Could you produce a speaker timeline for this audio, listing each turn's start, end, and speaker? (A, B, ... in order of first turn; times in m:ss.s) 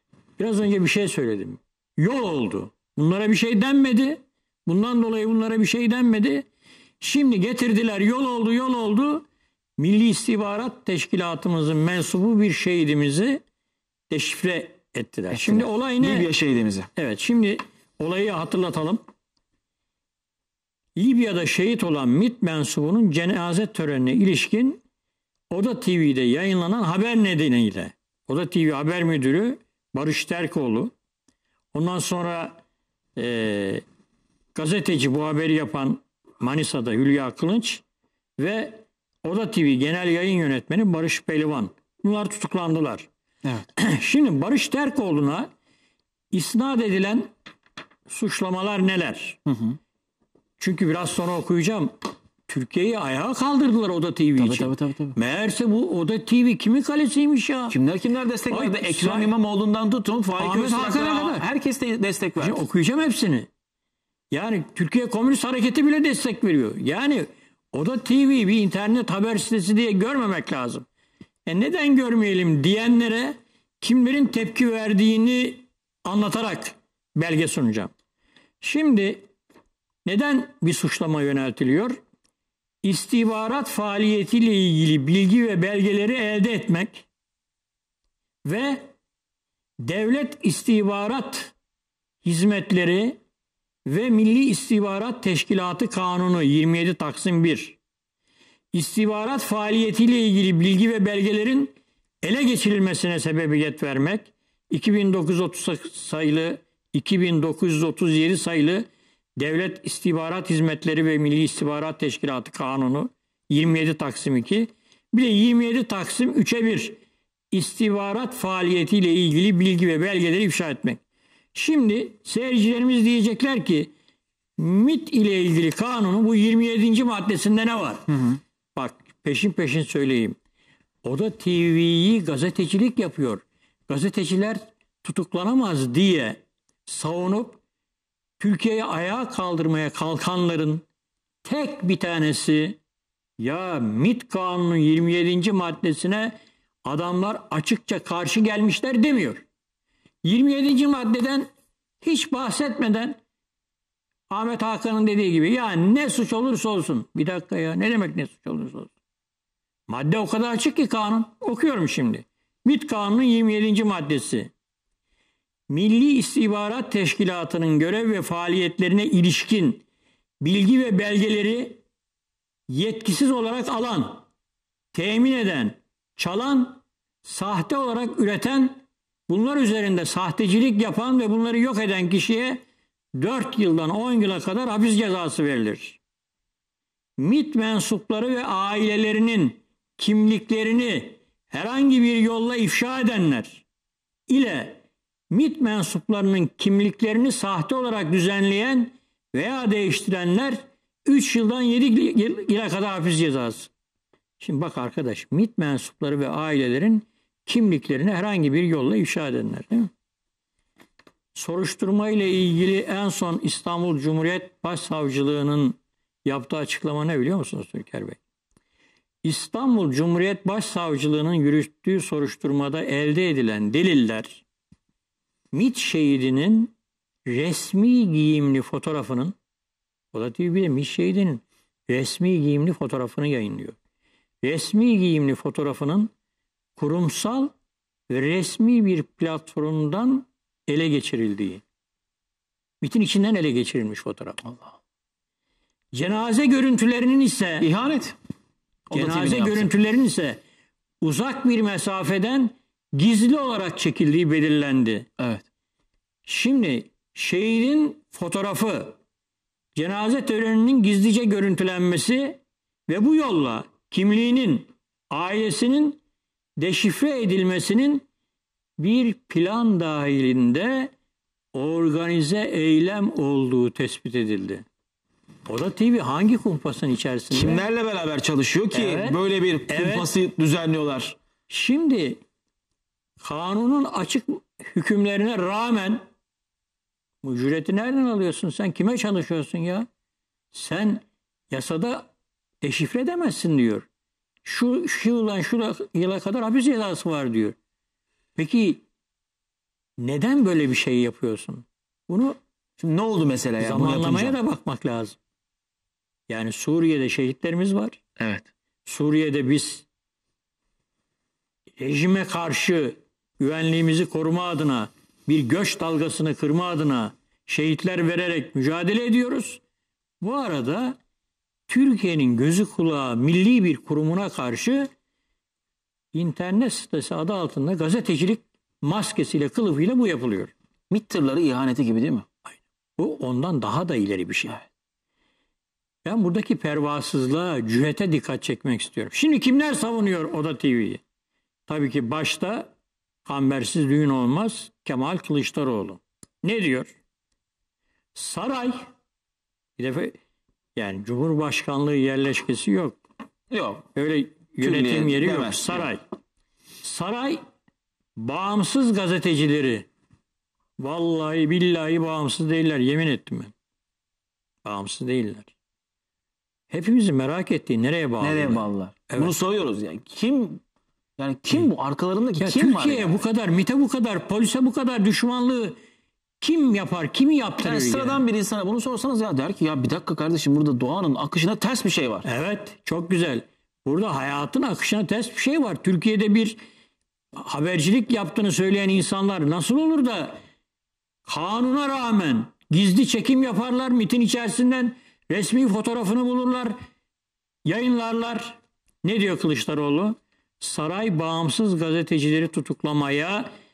0:00.4-0:06.4 A
0:07.0-0:09.2 A
0:09.8-0:13.4 A
0:14.1-0:16.3 A
0:15.3-0:16.9 B
0:17.0-0:19.0 A
0:21.0-0:24.8 A
0:25.5-0:30.9 A
0:31.7-0:32.6 A
0:33.2-0:33.8 A
0:34.5-0:37.8 A
0:38.4-0:43.1 A
0:43.8-0:45.5 A
0:46.3-0:47.3 A
0:48.1-0:49.4 A
0:49.5-0:49.8 B
0:50.6-0:51.9 A
0:52.5-0:57.8 A
0:54.4-0:55.2 B
0:57.7-1:02.6 B
0:58.5-0:59.3 A
1:00.4-1:01.4 A
1:02.4-1:03.5 A
1:04.3-1:10.8 A
1:11.4-1:17.9 A
1:18.6-1:19.2 A
1:20.0-1:22.0 A
1:22.8-1:27.0 A
1:28.4-1:28.9 A
1:29.8-1:31.5 A
1:32.2-1:33.2 A
1:33.8-1:37.8 A
1:38.7-1:57.0 A
1:57.5-2:01.0 A
2:01.5-2:03.9 A
2:04.6-2:08.2 A
2:08.7-2:10.4 A
2:11.0-2:17.6 A
2:18.4-2:20.8 A
2:21.4-2:22.8 A
2:23.4-2:29.4 A
2:30.2-2:31.5 A
2:32.0-2:33.2 A
2:34.3-2:38.9 A
2:39.9-2:44.5 A
2:45.7-2:49.8 A
2:50.4-2:51.8 A
2:52.7-2:54.2 A
2:54.9-3:02.6 A
3:03.1-3:06.0 A
3:07.2-3:13.6 A
3:14.3-3:14.8 A
3:15.3-3:23.7 A
3:24.4-3:29.9 A
3:31.3-3:38.2 A
3:39.2-3:44.4 A
3:45.5-3:46.7 A
3:47.3-3:49.4 A
3:50.1-3:53.8 A
3:54.4-3:56.1 A
3:56.8-3:57.5 A
3:58.1-4:01.6 A
4:02.8-4:04.4 A
4:05.9-4:07.7 A
4:07.6-4:08.2 B
4:08.9-4:09.7 B
4:08.9-4:10.4 A
4:11.0-4:15.1 A
4:15.2-4:15.4 B
4:16.2-4:19.0 A
4:19.7-4:26.0 A
4:26.6-4:28.0 A
4:28.8-4:30.9 A
4:31.5-4:34.6 A
4:35.5-4:37.6 A
4:37.3-4:41.2 B
4:38.7-4:40.1 A
4:41.5-4:42.2 A
4:43.2-4:46.0 A
4:47.2-4:49.9 A
4:50.5-4:52.1 A
4:52.6-4:53.9 A
4:54.4-4:57.5 A
4:58.4-4:58.8 A
5:00.0-5:02.4 A
5:02.8-5:04.4 B
5:03.6-5:05.2 A
5:06.3-5:08.0 A
5:08.2-5:08.5 B
5:08.8-5:09.8 A
5:11.8-5:19.6 A
5:20.2-5:21.0 A
5:21.7-5:24.9 A
5:26.1-5:30.5 A
5:30.9-5:32.2 B
5:33.0-5:34.6 A
5:36.0-5:41.0 A
5:41.7-5:42.7 A
5:43.2-5:46.9 A
5:48.1-5:48.9 A
5:49.8-5:50.1 A
5:50.8-5:53.0 A
5:53.5-5:53.8 B
5:53.9-5:56.0 A
5:54.6-5:55.9 B
5:56.8-5:57.4 A
5:58.2-5:59.9 A
6:00.8-6:03.5 A
6:04.6-6:05.5 A
6:06.7-6:09.3 A
6:08.2-6:10.6 B
6:11.2-6:13.2 B
6:12.4-6:15.8 A
6:16.4-6:18.2 A
6:17.6-6:22.2 B
6:22.2-6:26.6 A
6:27.3-6:30.4 A
6:31.2-6:36.7 A
6:37.6-6:43.5 A